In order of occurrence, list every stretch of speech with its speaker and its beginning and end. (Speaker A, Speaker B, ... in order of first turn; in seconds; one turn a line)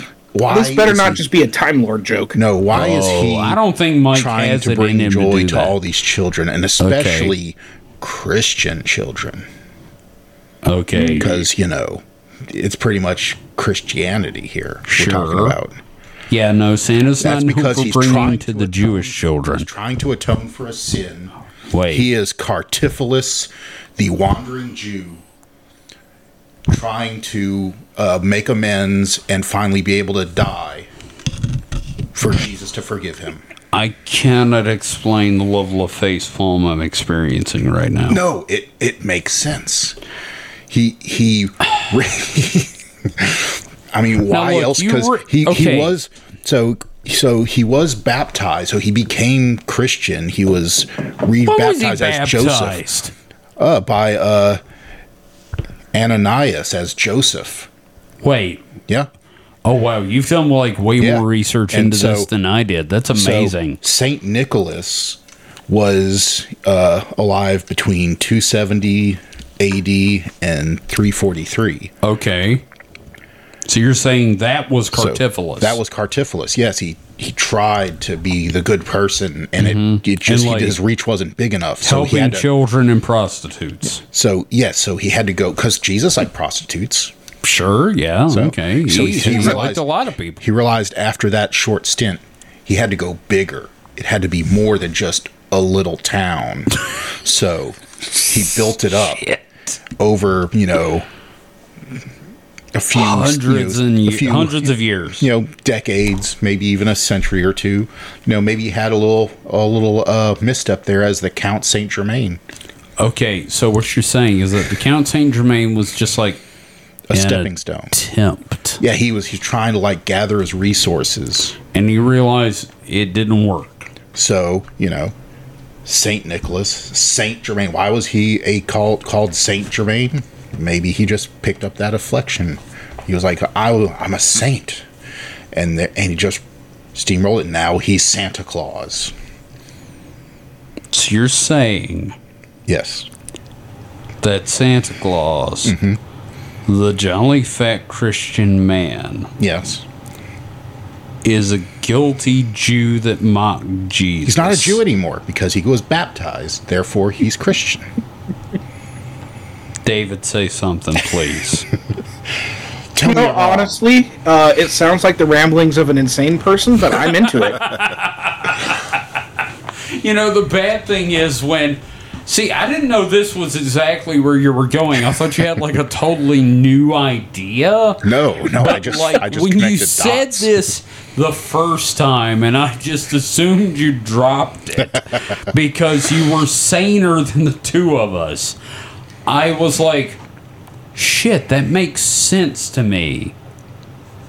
Speaker A: 0.3-1.2
Speaker B: 0.5-2.4
Speaker A: 2.3-3.6
Speaker C: 2.7-5.7
Speaker A: 4.1-9.5
Speaker C: 6.8-7.3
Speaker C: 10.6-11.3
Speaker B: 10.9-11.3
Speaker A: 11.2-15.8
Speaker C: 14.9-15.6
Speaker C: 16.3-19.7
Speaker A: 17.2-21.3
Speaker C: 21.7-22.1
Speaker A: 21.9-25.2
Speaker A: 26.7-30.9
Speaker A: 32.1-33.4
Speaker C: 33.7-38.2
Speaker A: 38.1-40.0
Speaker A: 40.7-52.9
Speaker C: 44.3-45.9
Speaker C: 51.4-53.1
Speaker A: 53.6-54.6
Speaker A: 55.9-57.7
Speaker C: 58.2-58.7
Speaker C: 59.6-63.8
Speaker A: 61.0-62.3
Speaker A: 63.1-71.9
Speaker C: 72.0-72.6
Speaker C: 73.6-75.8
Speaker A: 74.9-82.5
Speaker C: 79.6-80.8
Speaker C: 81.8-84.0
Speaker A: 84.1-87.1
Speaker C: 87.4-90.4
Speaker A: 88.3-89.8
Speaker A: 90.4-99.2
Speaker C: 98.1-99.8
Speaker A: 100.0-101.0
Speaker A: 102.7-112.4
Speaker C: 102.9-105.3
Speaker C: 113.0-116.4
Speaker A: 117.1-117.9
Speaker C: 117.1-118.8
Speaker A: 118.8-121.6
Speaker C: 121.7-123.9
Speaker A: 124.1-125.1
Speaker A: 125.8-134.8
Speaker A: 135.5-139.1
Speaker C: 140.9-142.2
Speaker A: 142.7-143.1
Speaker C: 144.2-145.7
Speaker A: 145.6-146.0
Speaker C: 146.7-149.3
Speaker A: 149.4-149.8
Speaker C: 151.2-154.8
Speaker A: 154.2-157.9
Speaker C: 159.8-161.7
Speaker A: 162.9-163.8
Speaker B: 163.0-167.7
Speaker C: 167.6-169.2
Speaker C: 169.9-188.6
Speaker A: 178.0-180.5
Speaker A: 184.8-185.1
Speaker C: 189.2-190.2
Speaker C: 190.9-193.3